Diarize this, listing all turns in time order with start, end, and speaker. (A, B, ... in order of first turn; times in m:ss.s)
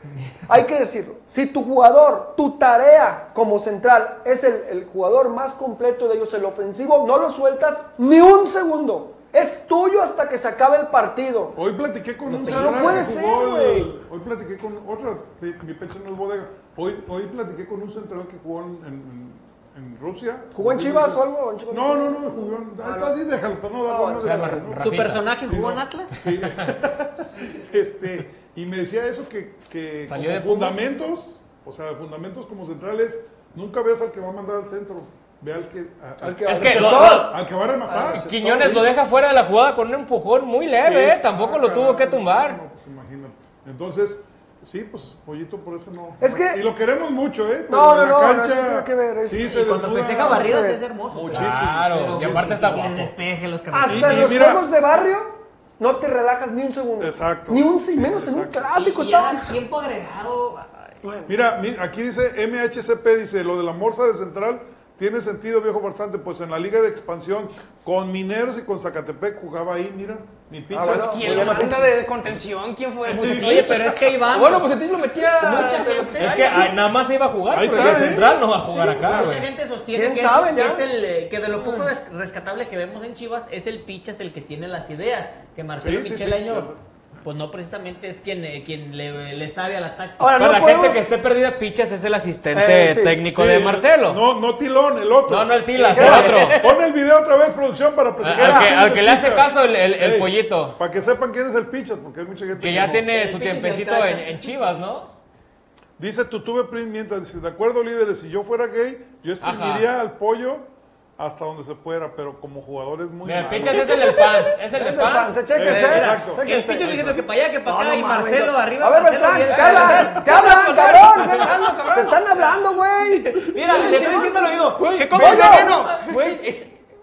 0:00.4-0:11.6 A
0:11.6-0:38.9 B
0:12.3-0:13.1 C
0:12.4-0:13.9 A
0:20.6-0:23.2 A
0:23.9-0:24.7 A
0:24.2-0:25.3 D
0:24.8-0:26.4 C
0:30.0-0:30.9 D
0:36.2-0:37.4 A
0:36.4-0:37.4 D
0:38.1-0:42.6 D
0:40.8-0:52.6 B
0:46.2-0:46.6 A
0:47.7-0:50.8 A
0:49.4-0:54.4 C
0:51.3-0:53.1 D
0:53.7-0:59.6 A
0:53.9-0:54.7 B
0:57.0-0:58.7 B
0:58.7-1:01.0 C
1:01.0-1:01.3 A
1:01.3-1:11.8 B
1:10.7-1:12.0 A
1:10.9-1:16.8 E
1:13.1-1:14.8 C
1:13.1-1:13.9 B
1:15.4-1:16.3 C
1:16.2-1:19.5 D
1:17.5-1:18.3 B
1:17.7-1:18.9 E
1:19.0-1:30.5 C
1:19.9-1:20.9 A
1:25.8-1:26.8 B
1:30.2-1:31.0 A
1:30.4-1:34.2 D
1:32.5-1:33.2 A
1:33.3-1:43.1 B
1:35.3-1:36.6 D
1:35.8-1:36.7 C
1:35.9-1:36.4 A
1:38.2-1:40.8 D
1:42.6-1:45.1 D
1:43.1-1:44.6 C
1:46.0-1:53.9 B
1:49.4-1:49.9 D
1:53.2-1:55.4 D
1:53.6-2:03.4 A
1:55.5-1:57.2 B
1:55.6-2:01.5 C
1:59.4-2:02.4 E
2:03.1-2:06.0 C
2:03.4-2:06.8 E
2:05.1-2:05.9 A